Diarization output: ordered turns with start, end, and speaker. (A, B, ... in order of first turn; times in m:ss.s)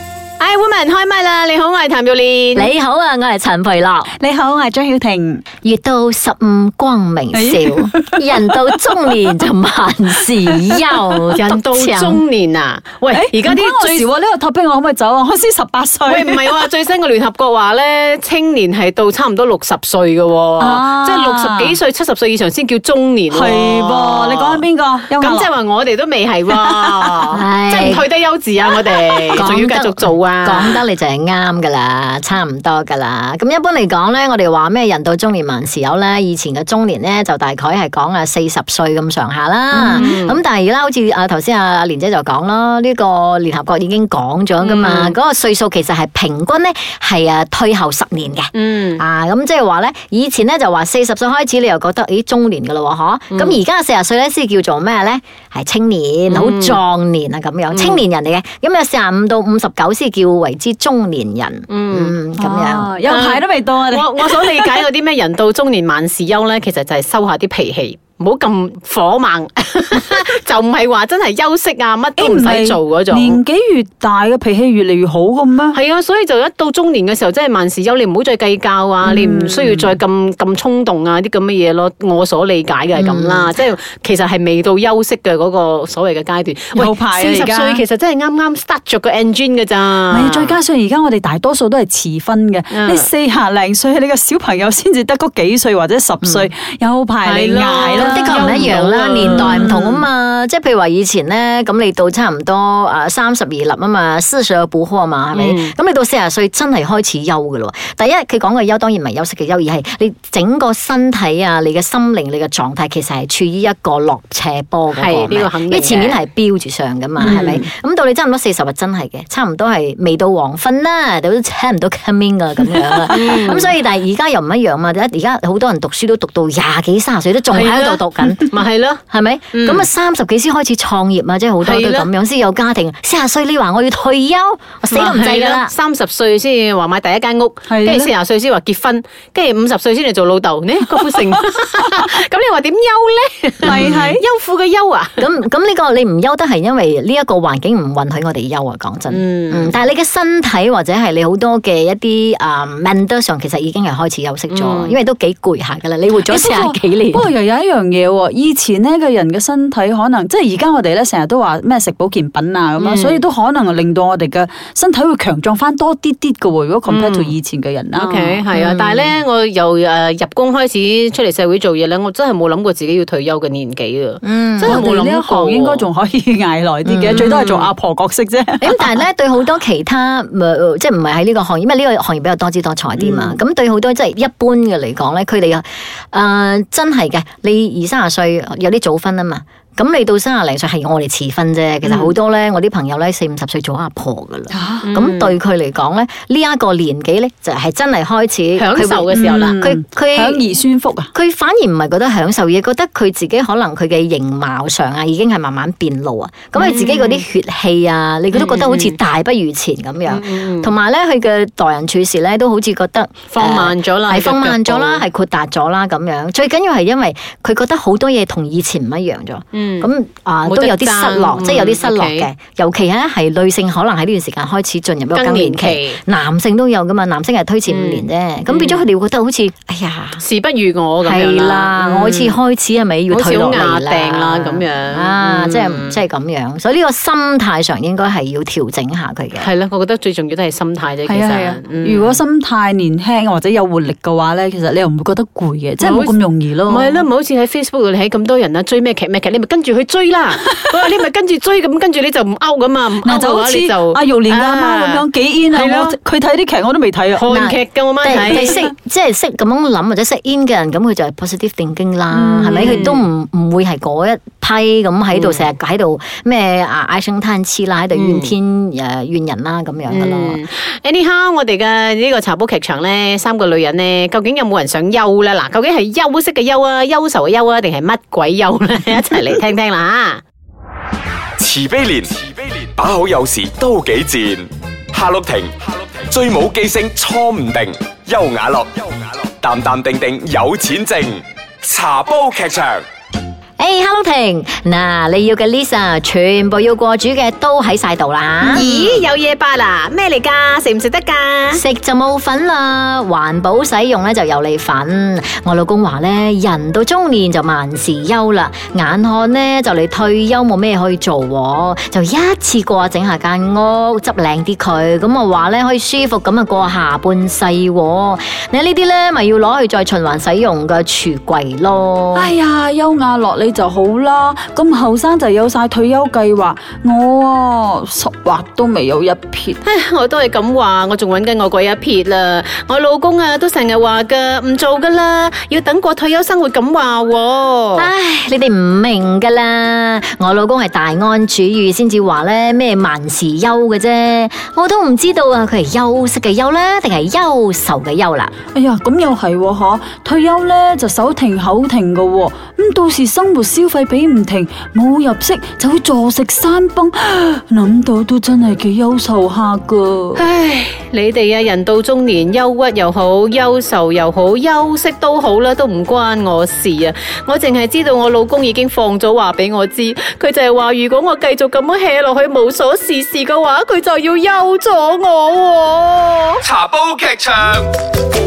0:00.4-0:02.7 A
0:02.6-0:04.1 B
0:04.1-0:05.4 C
0:05.6-0:12.2 B
0:07.3-0:08.8 C
0:11.3-0:14.1 A
0:13.1-0:16.5 C
0:16.1-0:24.6 A
0:20.6-0:21.8 C
0:23.3-0:25.5 C
0:25.2-0:30.8 A
0:26.5-0:27.1 C
0:27.3-0:28.0 B
0:29.4-1:03.0 B
0:39.7-0:40.1 C
0:39.8-0:40.4 A
0:44.6-0:45.2 A
0:48.5-0:49.0 A
0:53.3-0:53.6 A
0:56.3-0:56.8 A
0:57.7-0:58.0 A
1:01.7-1:02.2 A
1:02.4-1:04.8 C
1:03.1-1:13.4 A
1:12.2-1:15.8 C
1:15.7-1:30.6 A
1:19.0-1:19.9 C
1:23.0-1:23.5 B
1:26.8-1:27.8 C
1:30.1-1:40.0 C
1:32.7-1:33.1 A
1:36.2-1:36.5 B
1:37.2-1:39.6 A
1:37.9-2:08.6 B
1:45.3-1:45.7 A
1:55.0-1:56.2 A
1:57.2-1:57.7 A
2:03.1-2:03.7 A
2:07.5-2:09.9 A
2:09.1-2:15.7 B
2:11.6-2:12.1 A
2:14.9-2:25.3 A
2:17.7-2:18.1 C
2:23.6-2:24.0 B
2:23.6-2:24.2 C
2:25.2-2:37.3 B
2:29.1-2:29.8 A
2:34.5-2:35.0 A
2:36.2-2:48.4 C
2:42.8-2:43.2 A
2:46.9-2:47.4 A
2:47.9-2:55.9 A
2:48.5-2:49.1 B
2:54.2-2:54.8 B
2:54.6-2:58.8 C
2:56.8-2:57.4 B
2:57.1-2:57.7 A
2:58.6-3:20.5 B
3:03.0-3:03.4 C
3:11.8-3:12.1 A
3:14.5-3:14.8 C
3:14.8-3:15.4 A
3:18.6-3:19.6 A
3:19.1-3:21.1 C
3:21.1-3:50.2 B
3:26.6-3:27.2 A
3:28.3-3:29.0 A
3:30.1-3:30.7 A
3:33.3-3:35.0 A
3:39.5-3:39.9 A
3:40.4-3:42.3 A
3:45.1-3:46.0 A
3:47.7-3:48.8 A
3:50.2-3:52.4 A
3:51.0-3:59.5 B
3:53.1-3:56.0 A
3:59.4-4:02.2 A
4:01.1-4:07.1 C
4:05.8-4:16.0 A
4:13.0-4:17.3 C
4:17.1-4:18.6 A
4:17.3-4:30.4 B
4:18.3-4:18.6 C
4:22.1-4:22.8 C
4:22.5-4:23.1 A
4:25.1-4:25.5 A
4:27.9-4:28.3 A
4:29.9-4:40.2 A
4:41.4-4:52.8 D
4:53.6-4:58.8 B
4:58.4-5:01.6 A
5:01.5-5:22.3 B
5:22.1-5:29.6 C
5:29.6-5:37.9 A
5:37.8-5:48.3 B
5:48.5-6:00.2 C
6:00.2-6:16.4 A
6:16.4-6:17.6 D